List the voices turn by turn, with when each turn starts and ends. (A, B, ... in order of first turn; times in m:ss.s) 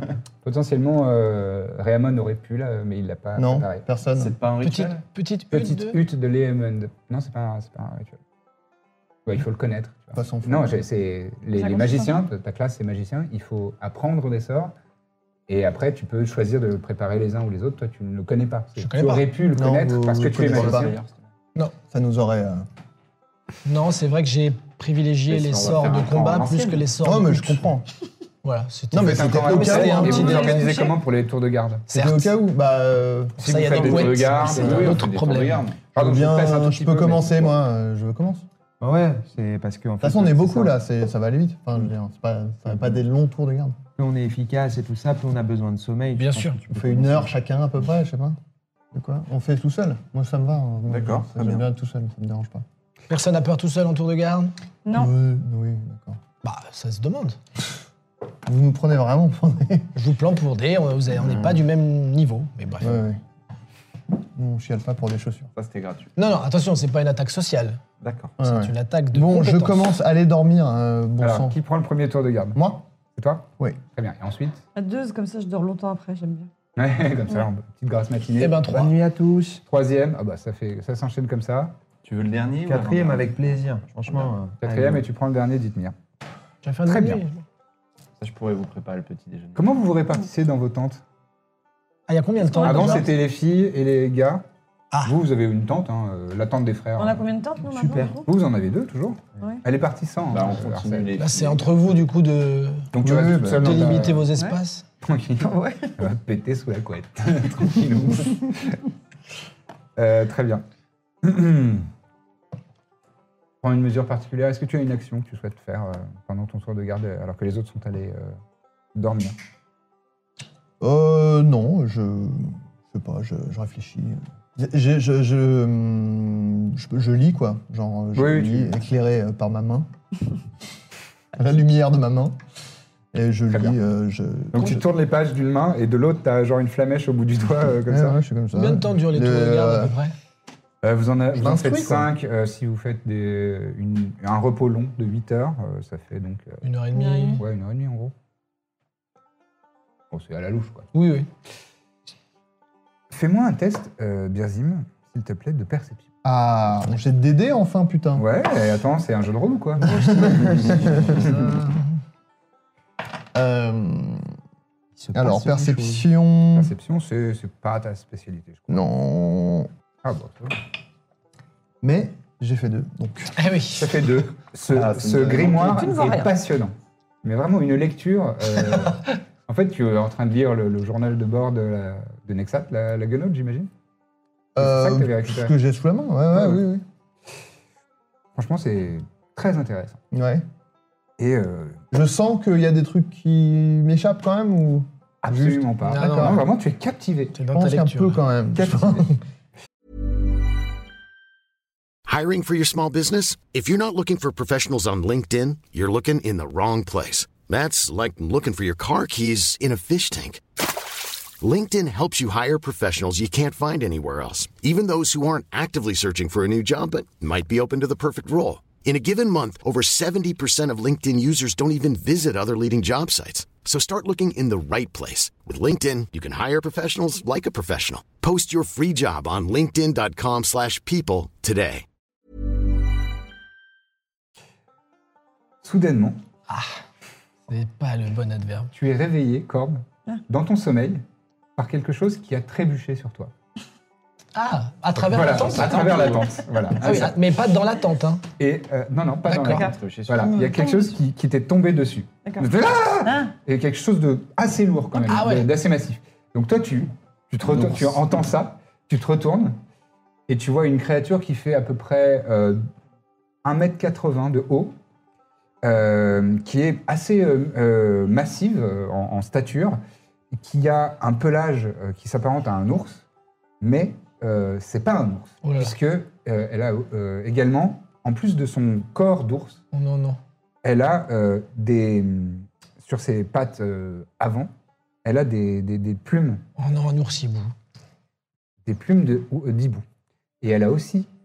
0:00.4-0:03.8 A
0:03.4-0:04.3 B
0:04.1-0:05.0 C
0:04.6-0:06.0 D
0:05.5-0:08.2 A
0:09.3-0:14.7 A
0:10.1-0:10.8 B
0:11.5-0:12.1 E
0:15.5-0:20.9 A
0:18.8-0:19.3 D
0:19.5-0:20.9 B
0:20.4-0:21.1 C
0:21.9-0:22.7 B
0:23.6-0:27.7 D
0:25.3-0:26.8 C
0:27.0-0:27.9 B
0:28.4-0:30.8 D
0:28.9-0:30.5 B
0:29.0-0:31.9 A
0:30.0-0:30.7 E
0:31.9-0:32.3 D
0:31.9-0:33.4 B
0:33.4-0:35.6 D
0:33.4-0:35.2 A
0:33.7-0:35.9 C
0:35.9-0:37.6 A
0:36.0-0:38.4 B
0:38.8-0:40.8 F
0:40.0-0:43.8 B
0:44.0-0:47.3 F
0:46.2-0:46.6 D
0:46.7-0:48.4 B
0:48.9-0:52.6 B
0:50.9-0:51.6 C
0:53.1-0:54.5 D
0:54.8-0:55.1 E
0:54.9-0:56.2 B
0:56.4-0:57.4 D
0:58.4-0:59.9 B
1:00.0-1:03.0 D
1:01.2-1:01.6 B
1:02.8-1:03.2 B
1:04.3-1:05.5 B
1:05.6-1:06.1 C
1:06.2-1:07.8 D
1:08.0-1:08.3 C
1:08.4-1:11.6 B
1:08.4-1:09.8 D
1:11.2-1:12.6 A
1:12.5-1:12.8 B
1:13.2-1:14.6 A
1:14.8-1:16.5 E
1:16.8-1:18.6 A
1:18.4-1:18.9 D
1:18.6-1:19.6 F
1:19.7-1:21.8 A
1:22.0-1:24.3 C
1:22.6-1:25.0 F
1:24.6-1:26.0 A
1:26.6-1:27.4 D
1:26.8-1:27.2 A
1:28.2-1:29.7 C
1:29.6-1:31.0 A
1:32.1-1:33.1 D
1:32.4-1:33.1 E
1:32.6-1:34.4 A
1:35.0-1:37.2 A
1:37.0-1:38.3 E
1:37.7-1:38.2 F
1:38.3-1:41.1 A
1:40.3-1:42.0 C
1:41.2-1:42.9 D
1:42.9-1:44.3 A
1:43.0-1:44.0 B
1:43.5-1:44.8 D
1:45.0-1:48.8 A
1:45.4-1:46.0 E
1:50.0-1:50.6 A
1:51.2-1:51.9 A
1:53.6-1:58.4 A
1:59.0-1:59.4 A
2:00.8-2:09.9 B
2:08.2-2:08.8 A
2:11.4-2:12.4 B
2:13.1-2:14.8 B
2:14.5-2:18.2 A
2:17.9-2:19.9 B
2:18.6-2:20.1 D
2:20.8-2:26.6 A
2:21.4-2:22.1 B
2:26.6-2:27.4 D
2:26.9-2:27.4 E
2:27.4-2:28.1 A
2:30.1-2:30.9 A
2:30.9-2:31.3 D
2:33.1-2:36.1 A
2:36.2-2:38.2 B
2:38.2-2:41.3 A
2:39.8-2:41.8 B
2:43.3-2:44.2 B
2:45.0-2:46.0 F
2:45.1-2:46.7 B
2:46.6-2:48.8 A
2:48.7-2:49.7 B
2:50.0-2:50.6 A
2:51.8-2:53.4 B
2:53.4-2:54.0 D
2:53.8-3:03.7 A
2:54.7-2:56.0 C
3:04.6-3:06.8 B
3:04.6-3:05.5 A
3:06.3-3:06.6 A
3:08.4-3:10.0 A
3:10.1-3:10.4 B
3:11.2-3:11.8 A
3:11.9-3:16.4 B
3:15.2-3:17.4 A
3:15.8-3:16.4 D
3:17.3-3:18.2 D
3:17.5-3:19.2 B
3:18.6-3:19.1 A
3:22.1-3:30.4 G
3:31.4-3:51.8 G
3:55.6-3:56.2 A
3:56.5-3:56.8 D
3:57.5-3:58.7 D
3:58.7-4:01.0 A
4:01.6-4:03.3 A
4:04.4-4:06.2 D
4:05.0-4:07.1 A
4:05.8-4:06.3 C
4:06.8-4:08.2 D
4:08.4-4:19.6 A
4:09.3-4:09.6 D
4:09.4-4:11.0 E
4:09.6-4:10.3 C
4:12.2-4:12.5 E
4:13.0-4:13.3 E
4:15.1-4:15.5 D
4:17.4-4:18.0 C
4:20.3-4:22.6 A
4:23.4-4:24.8 A
4:25.6-4:29.8 A
4:30.3-4:33.0 A
4:33.6-4:39.6 A
4:35.4-4:35.7 D
4:39.7-4:40.2 D
4:40.6-4:44.5 A
4:45.0-4:46.4 A
4:46.6-4:47.5 D
4:48.6-4:49.8 A
4:50.4-4:51.1 A